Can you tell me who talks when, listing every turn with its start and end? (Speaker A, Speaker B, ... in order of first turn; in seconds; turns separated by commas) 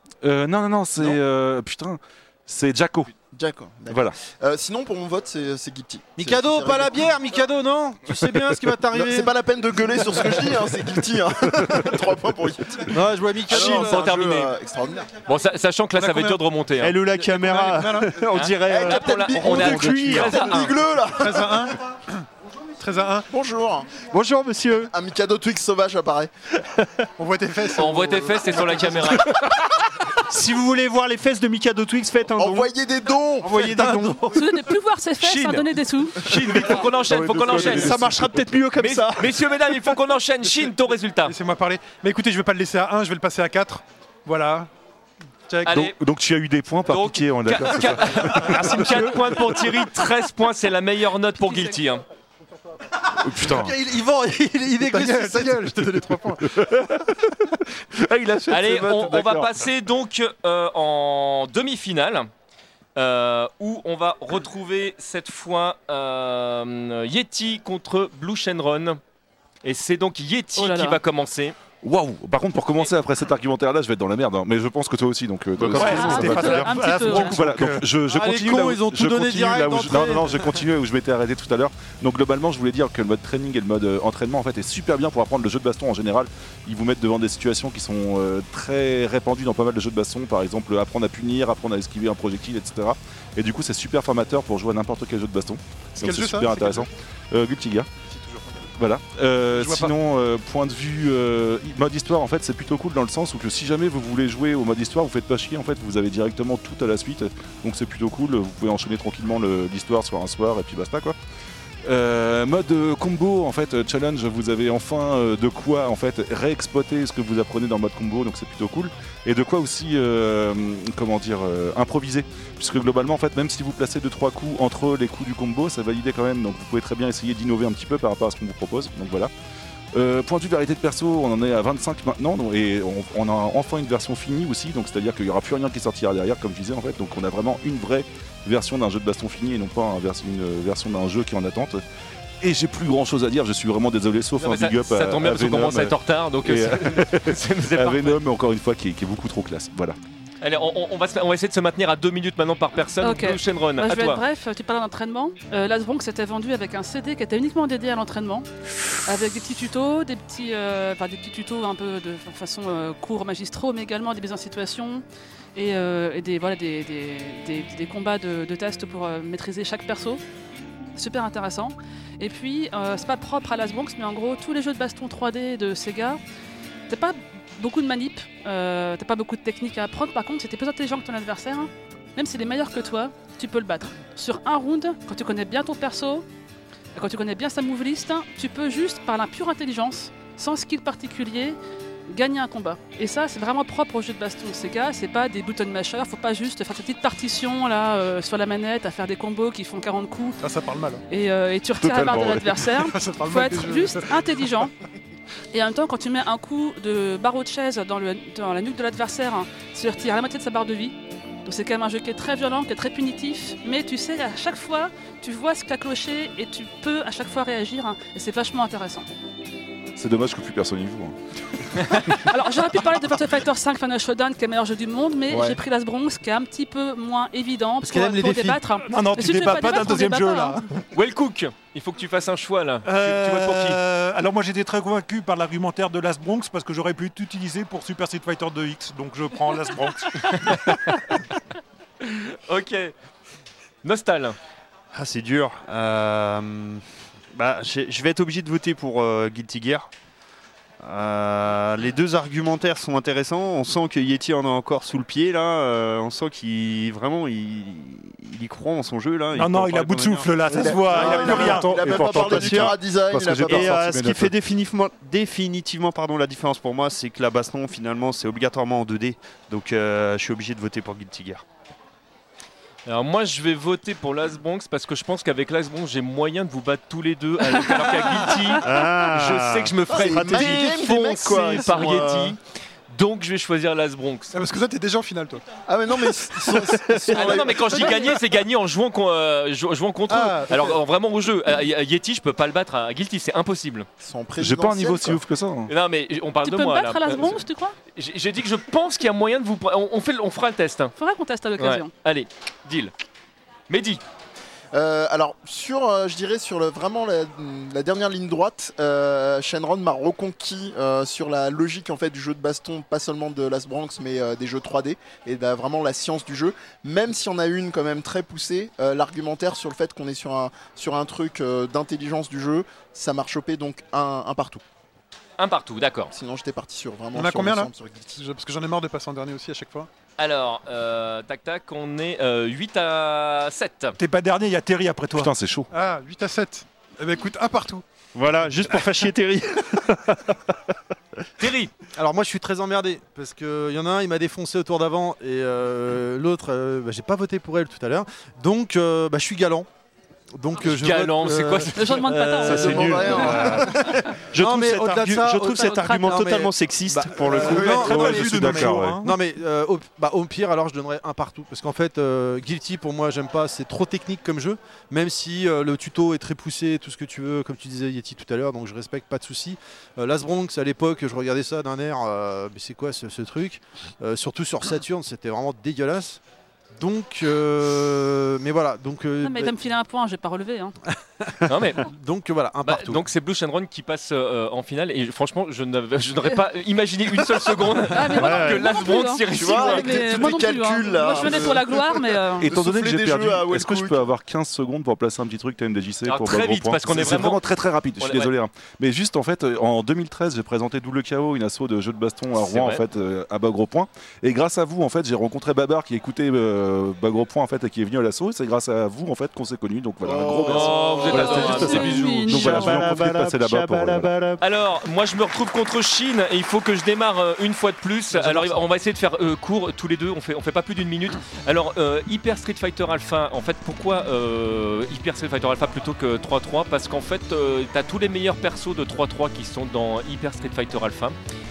Speaker A: 0.2-3.1, Speaker B: 3.3-7.1, Speaker A: 3.9-4.2, Speaker C: 6.2-9.3, Speaker B: 8.9-15.1, Speaker C: 10.0-10.2, Speaker C: 12.8-14.1, Speaker D: 13.5-14.5, Speaker D: 15.2-16.9, Speaker E: 15.9-16.4, Speaker F: 16.8-20.5, Speaker E: 17.1-18.2, Speaker D: 18.3-20.7, Speaker B: 18.6-21.7, Speaker E: 21.1-22.1, Speaker E: 22.8-23.3, Speaker B: 23.3-24.0, Speaker F: 24.0-24.9, Speaker B: 24.9-26.3, Speaker E: 27.2-29.5, Speaker D: 27.7-29.3, Speaker F: 30.3-32.7, Speaker B: 32.4-33.7, Speaker F: 33.4-34.4, Speaker C: 33.4-34.1, Speaker G: 34.3-36.2, Speaker D: 35.2-38.1, Speaker A: 36.8-38.5, Speaker F: 37.5-39.4, Speaker D: 38.8-41.3, Speaker E: 41.2-44.7, Speaker E: 45.5-45.8, Speaker D: 45.6-45.9, Speaker A: 45.7-48.8, Speaker D: 46.9-52.0, Speaker E: 48.4-49.6, Speaker G: 51.4-51.8, Speaker A: 53.2-53.8, Speaker C: 53.2-56.4, Speaker E: 54.8-56.5, Speaker A: 56.5-59.7, Speaker D: 58.5-62.3, Speaker D: 63.0-69.0, Speaker D: 69.6-71.5, Speaker G: 70.5-71.0, Speaker A: 71.8-97.9, Speaker H: 75.6-77.9, Speaker G: 75.7-77.4, Speaker C: 78.1-80.5, Speaker E: 96.0-96.9, Speaker E: 98.0-98.7, Speaker A: 98.8-111.2, Speaker E: 99.5-99.9, Speaker A: 111.8-129.3, Speaker A: 129.9-141.8, Speaker A: 142.4-149.9, Speaker D: 144.4-148.2, Speaker D: 150.4-154.2, Speaker G: 153.0-158.5, Speaker G: 159.0-165.0, Speaker G: 165.5-170.2, Speaker G: 170.9-176.2, Speaker G: 176.9-186.2, Speaker G: 186.9-191.6, Speaker G: 192.1-200.4, Speaker E: 200.4-201.0, Speaker G: 201.1-204.7, Speaker A: 201.8-202.5, Speaker E: 202.7-204.5, Speaker G: 205.5-219.1, Speaker A: 219.9-221.2, Speaker G: 222.0-230.6, Speaker B: 225.3-225.6, Speaker C: 227.8-228.6, Speaker H: 228.8-230.8, Speaker D: 230.9-233.8, Speaker H: 232.8-240.8, Speaker D: 240.2-241.0, Speaker D: 242.0-242.9, Speaker D: 243.8-244.3, Speaker F: 244.9-246.8, Speaker F: 247.3-249.9, Speaker F: 250.8-260.3, Speaker H: 259.3-262.7, Speaker B: 260.5-263.9, Speaker F: 260.9-262.8, Speaker A: 261.7-264.3, Speaker F: 263.4-271.4, Speaker D: 272.9-282.4, Speaker F: 278.6-282.1, Speaker B: 279.9-282.4, Speaker D: 282.9-284.4, Speaker E: 284.3-285.4, Speaker B: 285.7-288.1, Speaker D: 287.1-293.9, Speaker E: 287.6-288.1, Speaker E: 290.1-290.7, Speaker B: 294.0-295.2, Speaker A: 294.4-295.7, Speaker D: 295.7-297.4, Speaker G: 296.4-297.8, Speaker D: 297.9-300.9, Speaker G: 300.9-301.9, Speaker D: 301.6-302.9, Speaker D: 303.7-304.0, Speaker B: 304.7-324.6, Speaker D: 325.4-326.1, Speaker B: 326.1-328.2, Speaker E: 327.1-329.9, Speaker D: 330.2-334.0, Speaker H: 334.0-335.3, Speaker A: 335.1-335.7, Speaker E: 335.7-337.8, Speaker F: 338.1-340.6, Speaker D: 341.4-341.7, Speaker C: 341.9-349.7, Speaker C: 350.3-353.8, Speaker D: 350.6-353.4, Speaker G: 351.8-353.4, Speaker B: 352.4-353.9, Speaker F: 352.5-353.6, Speaker F: 354.3-358.2, Speaker C: 354.3-376.2, Speaker G: 355.4-356.2, Speaker H: 357.3-359.1, Speaker A: 357.6-359.0, Speaker C: 376.8-379.6, Speaker G: 379.2-380.7, Speaker C: 381.2-383.0, Speaker D: 381.4-381.9, Speaker D: 382.6-390.2, Speaker G: 387.9-392.5, Speaker F: 388.2-388.6, Speaker B: 389.3-394.1, Speaker A: 392.4-414.1, Speaker D: 396.0-397.4, Speaker D: 398.0-398.3, Speaker D: 402.4-402.8, Speaker B: 410.0-411.6, Speaker D: 410.4-412.1, Speaker G: 411.1-412.8, Speaker F: 412.3-414.4, Speaker D: 414.4-431.2